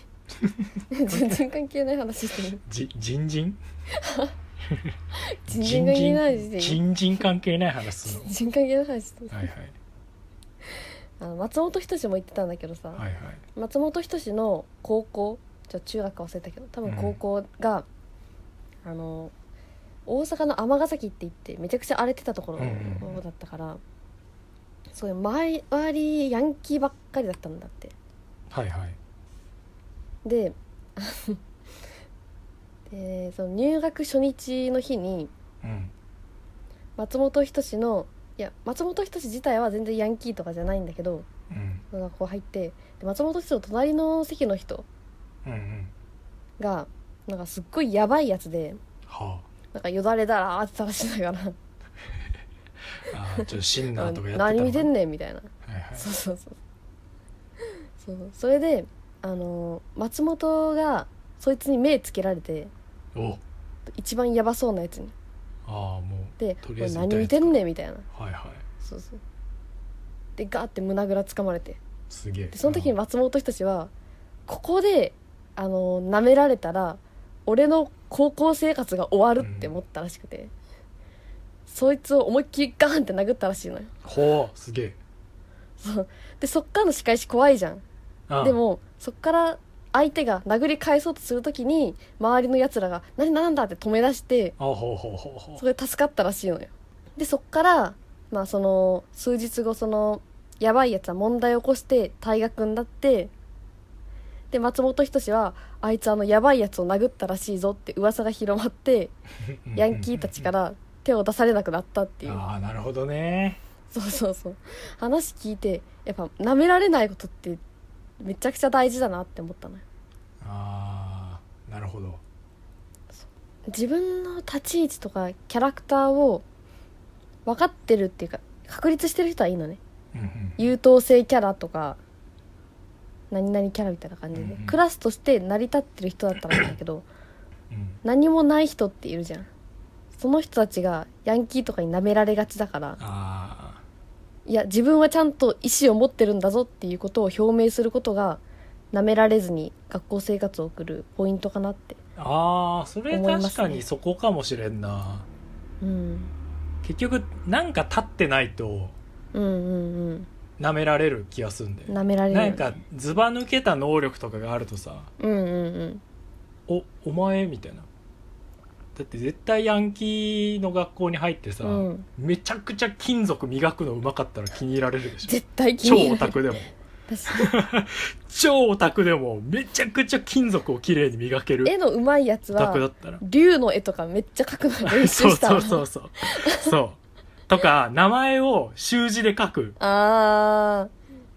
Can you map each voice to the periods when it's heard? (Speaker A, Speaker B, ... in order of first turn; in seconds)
Speaker A: 0.4-1.4, 2.6-3.6, 4.7-5.0, 5.5-8.3, 9.3-9.7, 12.9-13.4, 16.8-17.2, 22.6-23.2, 28.5-29.0, 35.6-35.9, 41.5-41.8, 45.4-45.9, 49.1-49.5, 53.0-54.9, 55.6-56.0, 63.1-63.4, 65.7-68.6, 72.1-72.9, 79.4-79.7, 84.0-85.0, 88.3-88.6, 94.6-95.6, 109.5-110.5, 112.2-113.6, 120.4-122.2, 130.1-130.6, 134.3-134.8, 137.7-138.0, 143.0-143.8, 152.2-155.3, 156.8-158.9, 160.6-165.1, 166.7-167.9, 168.9-176.7, 177.3-181.7, 182.5-183.2, 184.8-189.8
Speaker B: 0.9-2.6, 3.9-4.3, 5.4-6.8, 8.0-9.5, 11.2-13.0, 13.5-17.9, 18.8-19.3, 20.1-23.8, 24.9-27.9, 30.2-31.4, 32.9-35.3, 37.0-41.3, 41.9-44.9, 46.6-48.8, 49.7-51.5, 53.3-56.6, 58.0-62.7, 63.9-65.1, 66.4-68.1, 68.8-69.2, 70.4-71.8, 72.5-73.9, 74.5-80.5, 81.7-83.9, 85.8-87.8, 88.4-94.5, 95.6-103.3, 104.5-109.1, 109.7-112.4, 113.9-117.6, 118.2-119.8, 123.2-126.4, 127.5-129.8, 130.6-132.0, 133.3-137.1, 138.0-139.5, 140.2-143.0, 144.4-152.0, 153.1-153.8, 155.8-156.3, 159.3-160.3, 161.9-162.7, 165.2-166.0, 171.6-172.1, 175.2-176.4, 177.1-177.5, 181.6-186.7, 189.8-190.9